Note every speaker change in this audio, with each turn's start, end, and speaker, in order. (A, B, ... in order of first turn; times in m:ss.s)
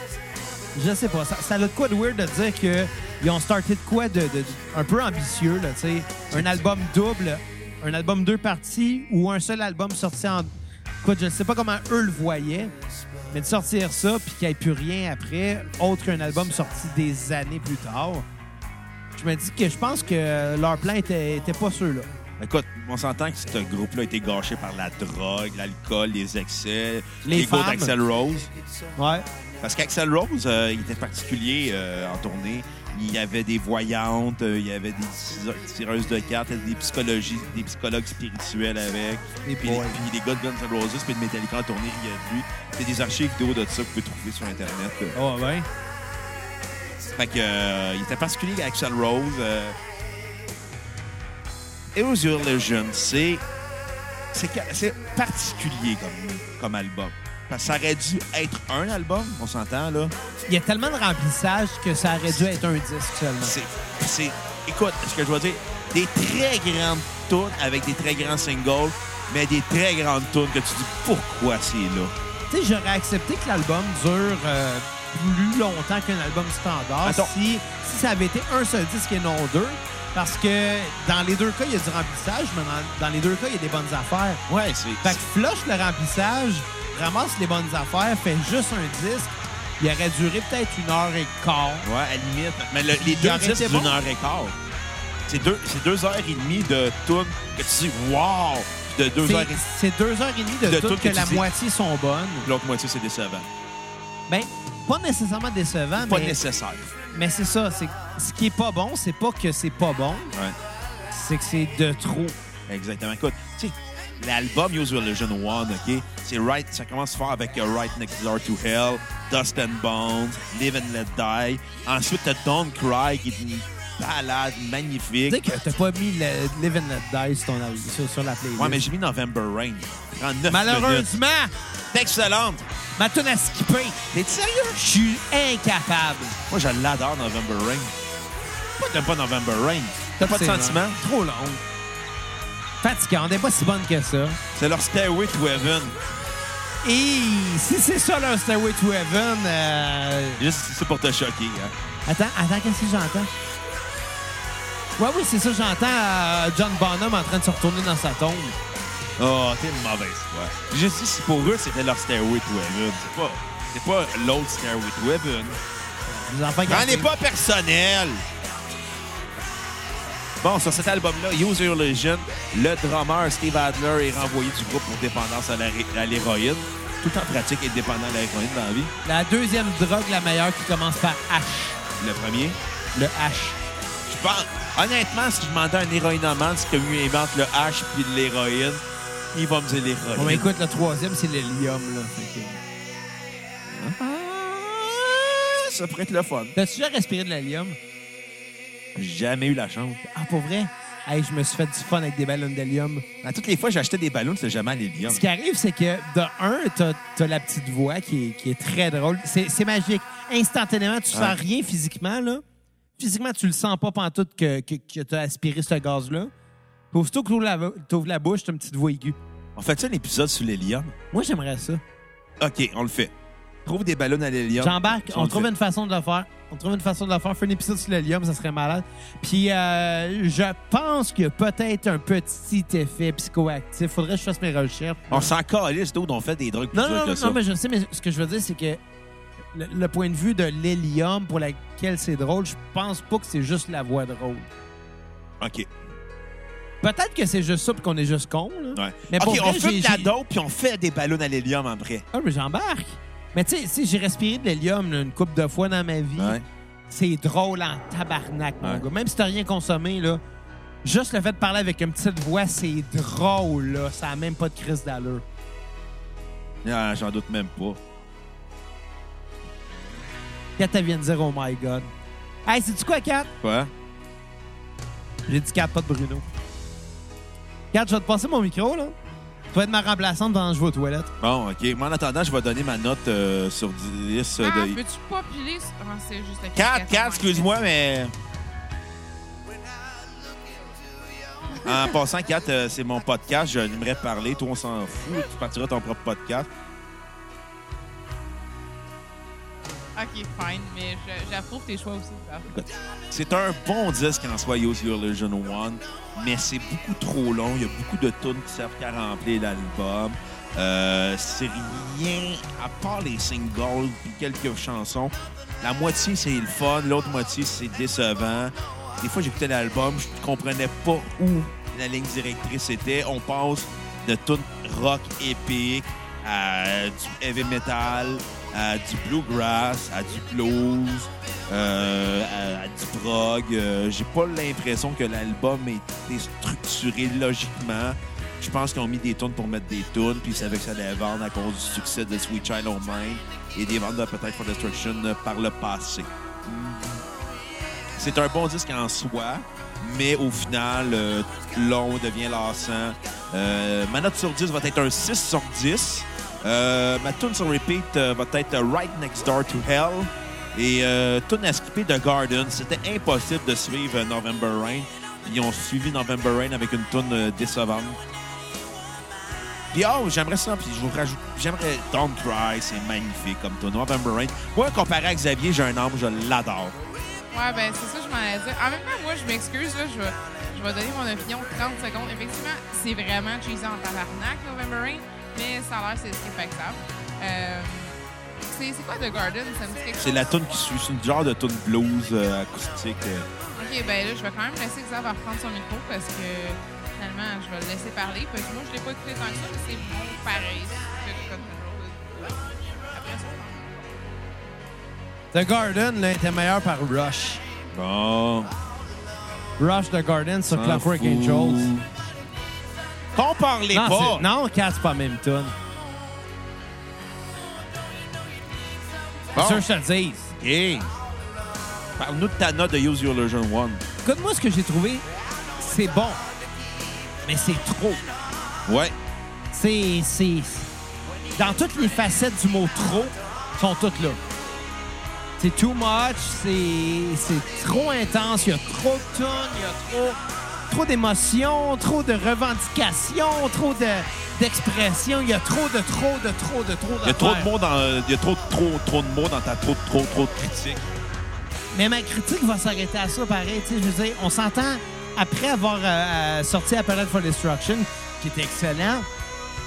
0:00.7-0:10.5 A
0:06.3-0:06.6 B
0:11.0-0:12.7 A
0:13.3-0:18.3 A
0:19.2-0:22.1 A
0:22.4-0:28.5 B
0:27.2-0:28.0 A
0:29.0-0:29.2 A
0:29.6-0:45.2 B
0:39.4-0:40.0 A
0:45.1-0:45.7 A
0:47.2-0:49.8 B
0:51.9-0:53.4 B
0:54.3-1:00.1 B
1:00.5-1:03.6 A
1:03.4-1:12.1 B
1:12.5-1:24.4 A
1:17.0-1:17.3 B
1:24.5-1:25.2 B
1:25.0-1:31.9 A
1:31.8-1:34.6 B
1:32.9-1:34.0 A
1:35.3-1:39.6 B
1:39.2-1:42.5 A
1:40.6-1:41.5 B
1:42.4-1:43.5 B
1:44.3-1:46.4 A
1:46.0-1:46.9 B
1:47.1-1:50.3 A
1:51.1-1:52.4 A
1:52.7-2:05.4 B
2:05.3-2:08.8 A
2:08.6-2:11.1 B
2:10.5-2:11.5 A
2:11.9-2:12.6 B
2:13.0-2:14.1 A
2:14.1-2:14.8 B
2:14.8-2:16.4 A
2:16.5-2:17.9 B
2:18.8-2:21.0 B
2:20.2-2:21.6 A
2:22.8-2:24.4 A
2:24.5-2:26.0 B
2:26.8-2:30.4 A
2:30.4-2:31.7 B
2:32.1-2:33.3 A
2:35.0-2:38.6 A
2:39.2-2:45.6 B
2:46.1-2:47.1 A
2:46.7-2:48.2 B
2:50.4-2:58.9 B
2:59.0-3:01.8 A
3:02.0-3:02.6 B
3:03.0-3:03.6 A
3:04.1-3:10.5 B
3:10.2-3:12.6 A
3:13.7-3:16.6 B
3:16.6-3:17.8 A
3:19.0-3:20.0 B
3:20.0-3:23.0 A
3:23.2-3:25.2 B
3:25.1-3:32.4 A
3:31.1-3:31.4 B
3:33.0-3:36.3 A
3:36.9-3:39.2 A
3:39.6-3:40.9 B
3:41.1-3:41.8 A
3:42.4-3:43.1 B
3:43.6-3:45.5 B
3:44.6-3:55.3 A
3:55.1-3:57.4 B
3:56.7-3:58.8 A
3:59.5-4:04.5 A
4:05.4-4:05.7 B
4:06.8-4:10.1 A
4:08.8-4:12.0 B
4:12.1-4:20.2 A
4:16.2-4:16.4 B
4:20.8-4:25.2 A
4:26.6-4:27.8 B
4:30.6-4:31.9 A
4:32.5-4:33.3 A
4:33.4-4:33.7 B
4:35.3-4:36.3 A
4:37.7-4:39.0 A
4:39.5-4:41.1 A
4:41.2-4:44.8 B
4:44.4-4:47.5 C
4:46.6-4:48.1 B
4:51.6-4:56.5 B
5:00.0-5:02.5 C
5:02.5-5:47.0 B
5:48.0-6:08.0 B
6:09.7-6:16.8 B
6:17.3-6:28.0 C
6:28.5-6:30.2 C
6:30.0-6:33.3 B
6:33.6-6:44.0 C
6:45.3-6:47.4 A
6:47.7-6:48.5 B
6:49.6-6:51.7 A
6:50.5-6:51.9 B
6:53.2-6:54.3 B
6:53.7-6:55.6 A
6:59.4-6:59.7 B
6:59.4-7:00.3 A
7:00.4-7:00.9 B
7:02.0-7:03.8 B
7:04.0-7:05.1 A
7:05.6-7:06.2 A
7:07.2-7:08.0 A
7:08.7-7:08.9 B
7:09.5-7:10.7 A
7:11.4-7:14.2 A
7:15.4-7:20.2 A
7:20.7-7:27.5 A
7:27.0-7:30.9 B
7:31.7-7:39.1 A